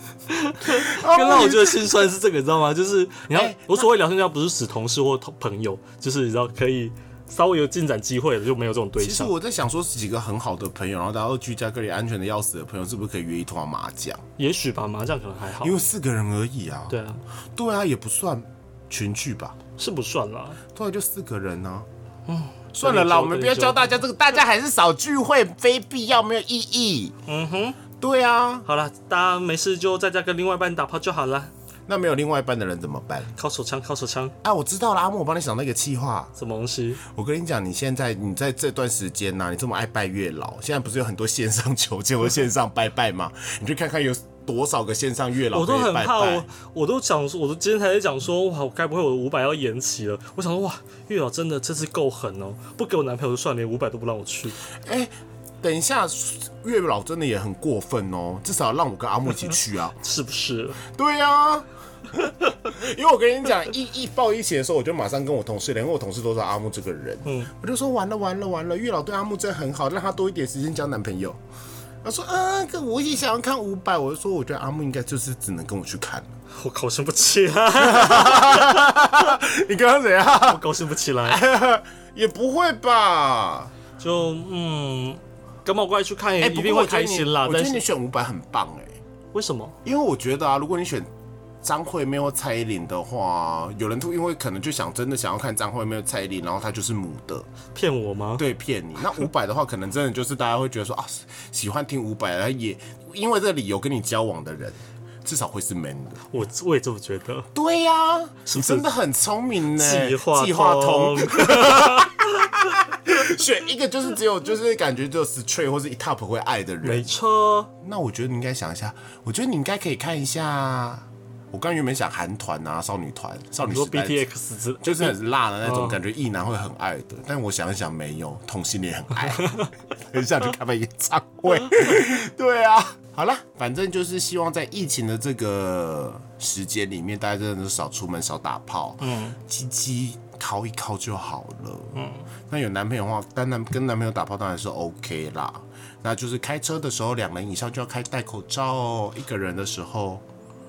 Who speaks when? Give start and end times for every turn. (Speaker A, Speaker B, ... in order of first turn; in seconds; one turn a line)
Speaker A: 0.3-9.3
Speaker B: 0.7-1.9
Speaker B: 3.3-3.9
Speaker B: 9.0-14.2
Speaker A: 14.4-15.8
Speaker B: 15.6-17.0
Speaker A: 16.9-17.2
Speaker B: 17.5-19.6
Speaker A: 19.8-20.6
Speaker B: 20.7-21.9
Speaker A: 22.3-24.0
Speaker B: 22.7-27.1
Speaker A: 27.3-27.8
Speaker B: 28.0-28.7
Speaker A: 28.7-31.5
Speaker B: 31.9-33.3
Speaker A: 33.4-34.3
Speaker B: 34.4-36.3
Speaker A: 36.4-37.0
Speaker B: 37.0-46.5
Speaker A: 45.5-54.6
Speaker B: 54.8-60.0
Speaker A: 60.0-60.8
Speaker B: 60.9-71.4
Speaker A: 67.2-67.5
Speaker B: 72.0-76.3
Speaker A: 76.5-79.0
Speaker B: 77.8-80.7
Speaker A: 80.5-81.4
Speaker B: 81.2-83.7
Speaker A: 84.0-87.8
Speaker B: 86.4-89.0
Speaker A: 89.3-89.8
Speaker B: 89.8-91.1
Speaker B: 91.6-97.5
Speaker A: 97.7-98.5
Speaker B: 98.4-106.2
Speaker A: 106.3-107.5
Speaker B: 107.5-117.2
Speaker A: 108.5-108.9
Speaker A: 109.7-112.2
Speaker A: 116.8-117.7
Speaker B: 117.8-124.3
Speaker A: 123.6-126.0
Speaker B: 124.8-142.0
Speaker A: 139.0-139.4
Speaker A: 141.9-142.3
Speaker B: 142.5-150.2